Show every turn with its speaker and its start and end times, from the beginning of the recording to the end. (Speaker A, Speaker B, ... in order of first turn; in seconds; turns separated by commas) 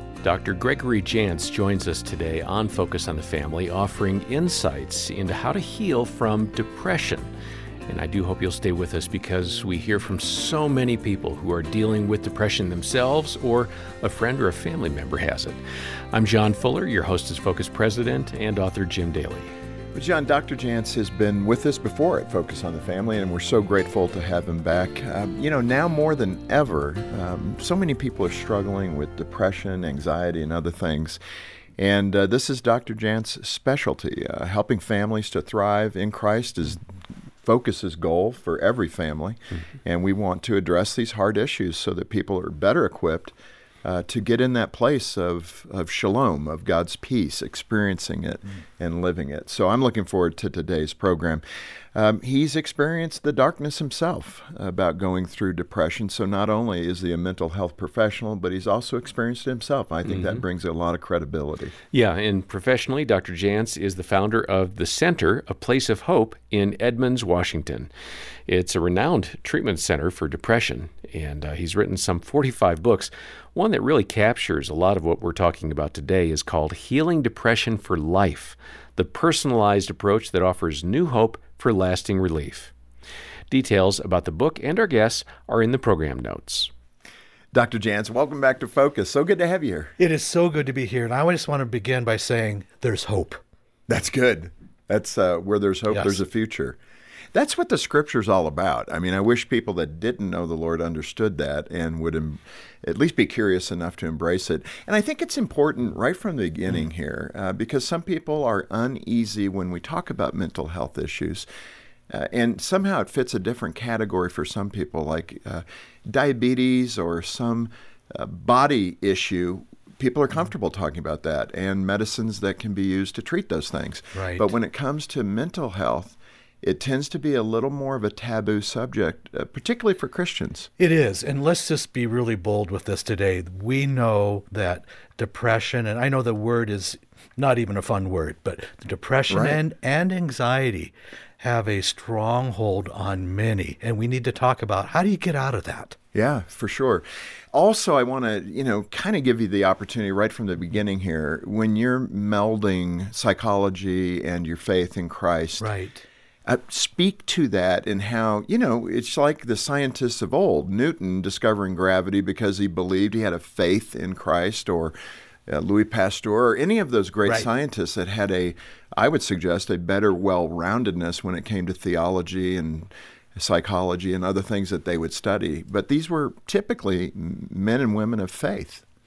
Speaker A: 0.2-7.3, Speaker A: 7.9-15.6, Speaker A: 16.1-19.5, Speaker B: 19.9-31.2, Speaker B: 31.8-36.8, Speaker B: 37.4-51.4, Speaker B: 51.9-61.8, Speaker A: 60.1-60.4, Speaker A: 61.9-67.9, Speaker A: 68.5-82.7, Speaker A: 83.5-86.7, Speaker B: 87.5-89.9, Speaker C: 90.0-93.4, Speaker B: 93.9-96.8, Speaker C: 95.9-96.2, Speaker B: 97.3-111.5, Speaker B: 112.1-130.7, Speaker C: 124.1-124.5, Speaker C: 130.8-146.0, Speaker B: 139.3-139.6, Speaker B: 146.1-155.7, Speaker C: 155.6-156.1, Speaker B: 156.4-164.9, Speaker B: 165.5-178.8